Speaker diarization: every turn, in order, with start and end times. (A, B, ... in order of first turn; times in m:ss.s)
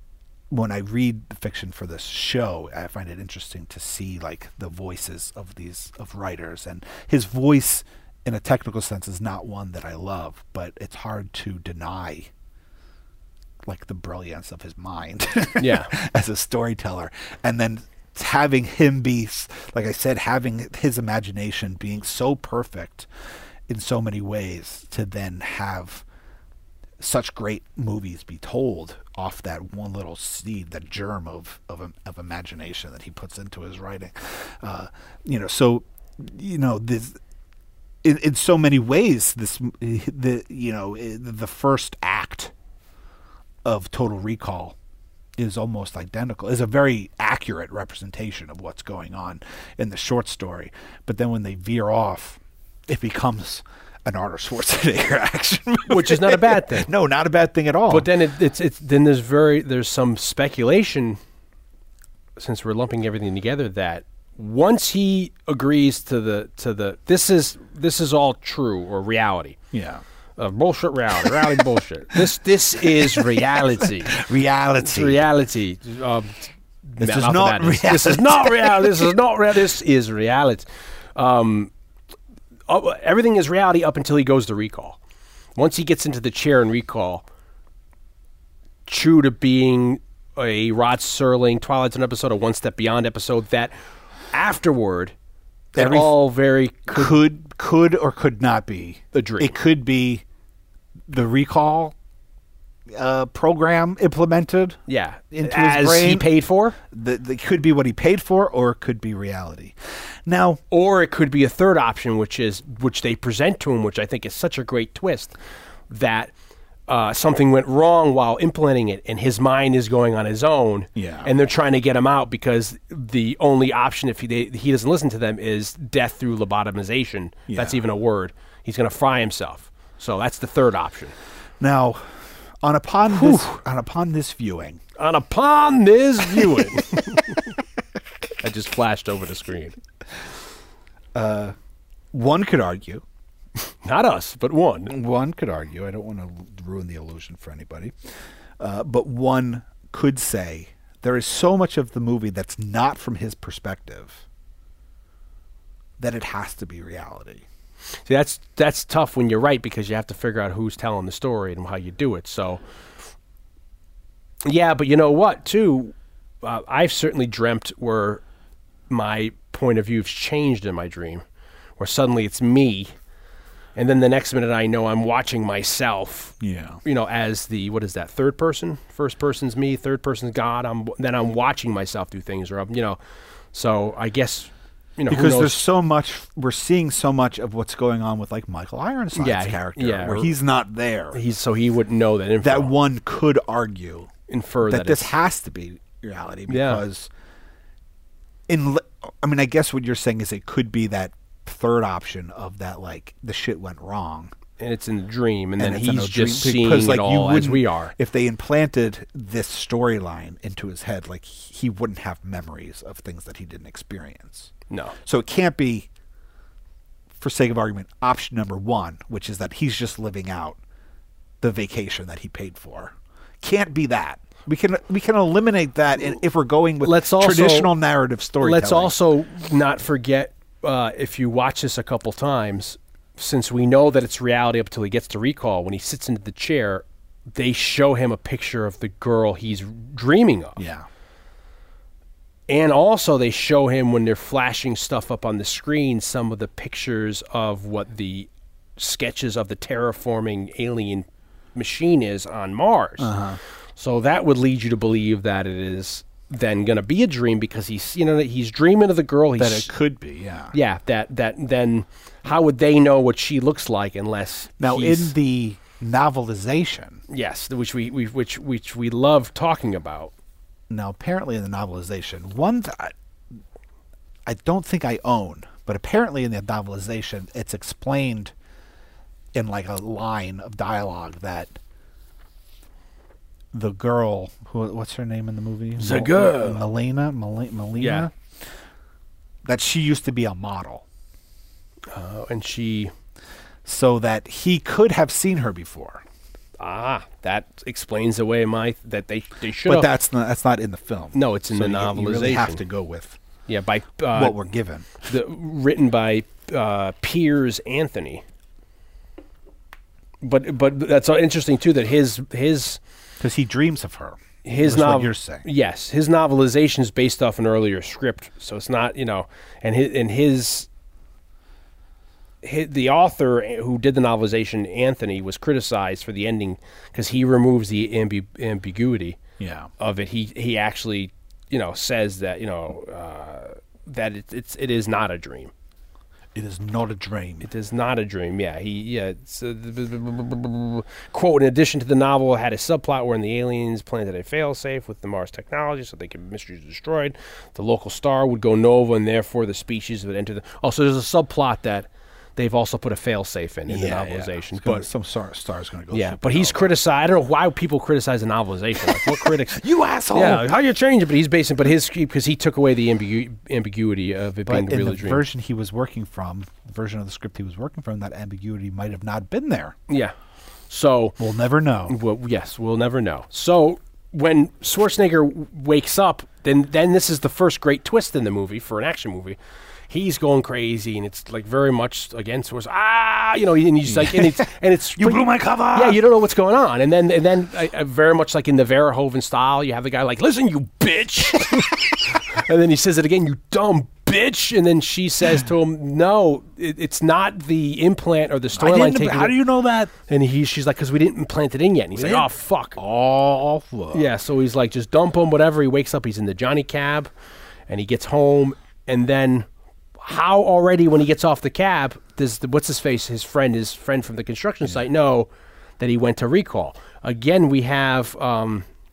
0:00.5-0:12.3 A
0:13.6-0:23.1 A
0:15.6-0:15.9 B
0:23.7-0:26.0 A
0:27.0-0:37.2 A
0:38.0-0:42.5 A
0:43.6-0:44.8 A
0:45.4-0:58.1 A
0:55.9-0:56.9 B
0:57.9-1:01.2 B
1:02.4-1:09.6 B
1:09.7-1:10.0 A
1:10.4-1:14.2 B
1:11.2-1:11.6 A
1:12.8-1:15.2 A
1:14.8-1:21.7 B
1:17.0-1:19.1 A
1:22.7-1:25.0 B
1:25.6-1:27.3 B
1:28.9-1:33.7 B
1:34.3-1:35.1 B
1:35.7-1:36.2 A
1:35.8-1:37.2 B
1:36.9-1:40.2 A
1:39.1-1:39.6 B
1:41.1-1:42.0 A
1:42.9-1:44.8 A
1:44.9-1:46.8 B
1:45.3-1:46.3 A
1:46.9-1:50.6 A
1:50.7-1:55.4 B
1:55.9-1:56.3 B
1:56.9-2:11.1 B
2:01.0-2:01.3 A
2:07.5-2:07.8 A
2:11.6-2:14.8 A
2:13.1-2:13.6 B
2:15.0-2:17.4 B
2:18.4-2:19.8 B
2:21.1-2:21.6 A
2:22.1-2:23.0 A
2:23.6-2:24.9 B
2:24.9-2:27.9 A
2:28.6-2:34.2 A
2:36.0-2:37.4 A
2:38.1-2:42.6 B
2:44.4-2:48.2 B
2:48.9-2:51.2 B
2:51.8-2:52.9 B
2:53.8-3:03.0 B
2:56.4-2:56.8 A
3:03.5-3:05.6 B
3:05.1-3:11.2 A
3:09.2-3:10.4 B
3:11.1-3:12.7 B
3:12.4-3:14.1 A
3:14.3-3:15.1 B
3:14.6-3:17.1 A
3:16.5-3:16.8 B
3:18.5-3:24.3 A
3:24.6-3:27.9 B
3:25.6-3:34.5 A
3:34.7-3:35.0 B
3:35.0-3:35.9 A
3:37.2-3:40.6 A
3:41.4-3:49.0 A
3:46.8-3:47.7 B
3:48.4-4:00.6 B
4:00.6-4:00.9 A
4:02.5-4:13.1 B
4:13.0-4:13.4 A
4:13.8-4:19.7 B
4:19.4-4:20.6 A
4:20.5-4:25.2 B
4:24.6-4:27.0 A
4:27.1-4:30.1 B
4:30.7-4:33.0 A
4:34.3-4:38.3 A
4:39.3-4:41.6 A
4:43.5-4:48.1 A
4:45.8-4:46.7 B
4:47.8-4:48.1 B
4:49.4-4:50.8 A
4:51.9-4:52.9 B
4:53.6-4:56.0 A
4:56.6-4:59.9 B
4:59.6-5:03.2 A
5:01.1-5:02.6 B
5:03.5-5:04.4 B
5:04.1-5:05.0 A
5:05.0-5:08.2 B
5:10.2-5:12.8 B
5:13.2-5:15.5 A
5:14.4-5:20.7 B
5:22.4-5:29.2 B
5:29.4-5:29.7 A
5:29.8-5:35.5 B
5:36.4-5:37.5 A
5:37.4-5:54.9 B
5:53.7-5:56.7 A
5:55.9-5:59.6 B
5:59.0-6:00.5 A
6:00.1-6:05.2 B
6:04.5-6:09.8 A
6:09.9-6:10.1 B
6:10.7-6:11.2 B
6:11.2-6:12.0 A
6:11.9-6:19.4 B
6:19.9-6:39.4 B
6:23.9-6:26.0 A
6:38.5-6:39.9 A
6:40.1-6:42.8 B
6:42.0-6:44.1 A
6:43.9-6:47.1 B
6:47.7-6:49.5 B
6:50.0-6:58.7 B